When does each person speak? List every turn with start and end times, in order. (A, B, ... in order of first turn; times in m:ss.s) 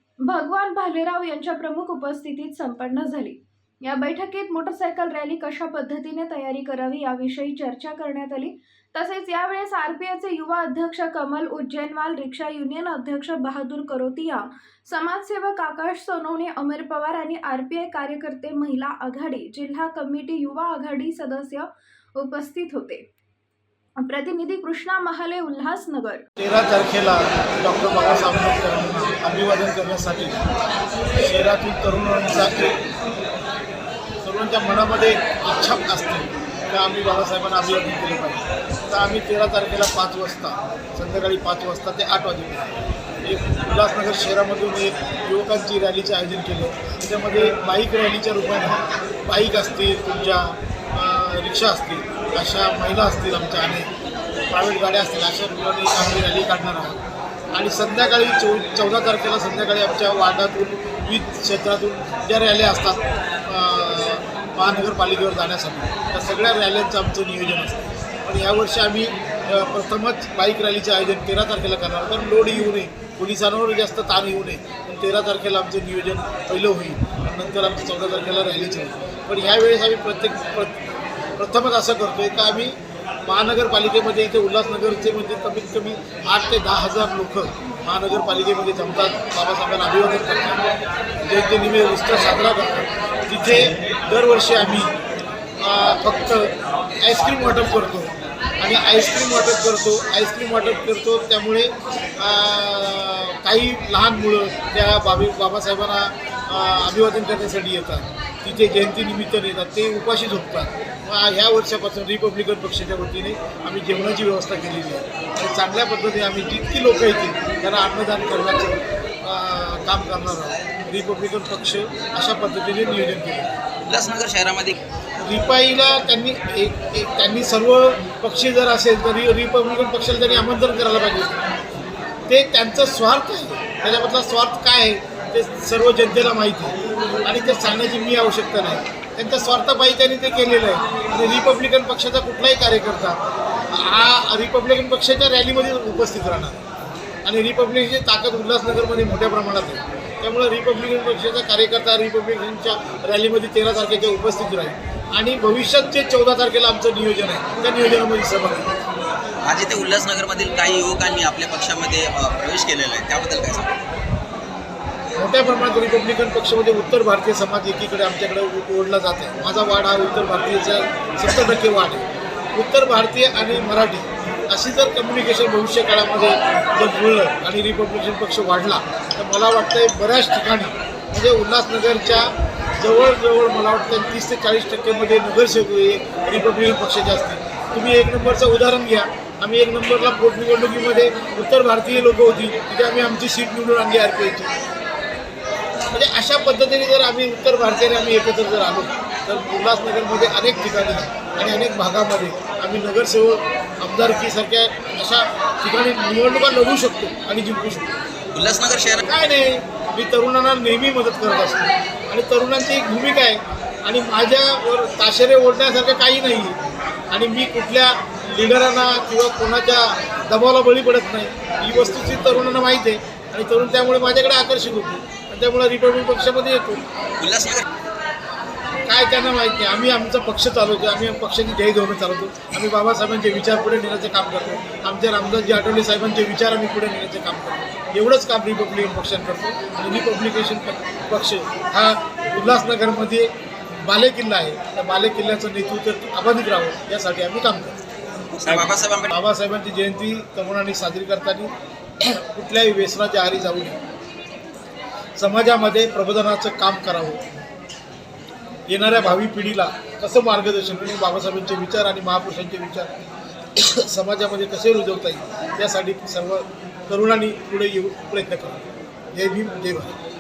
0:00.3-0:23.0 A
0:24.0-0:26.2 A
0:26.4-0:30.4 B
0:31.2-0:32.7 B
0:34.2-0:42.7 B
0:43.2-0:53.9 B
0:54.5-0:57.0 B
0:57.5-1:20.8 B
1:21.4-1:30.6 B
1:31.2-1:34.9 B
1:35.6-2:03.5 B
2:03.9-2:04.8 C
2:05.2-2:11.4 B
2:12.3-2:26.6 B
2:27.2-2:38.7 B
2:39.5-2:43.7 C
2:45.2-3:14.5 B
3:15.9-3:27.9 B
3:28.3-3:29.0 C
3:29.1-3:36.6 B
3:37.1-3:46.8 B
3:47.2-3:47.6 C
3:48.9-4:03.3 B
4:03.8-4:07.7 B
4:08.3-4:09.1 C
4:08.5-4:13.8 B
4:15.2-4:17.2 B
4:18.7-4:23.0 B
4:23.6-4:28.6 B
4:29.2-4:29.9 B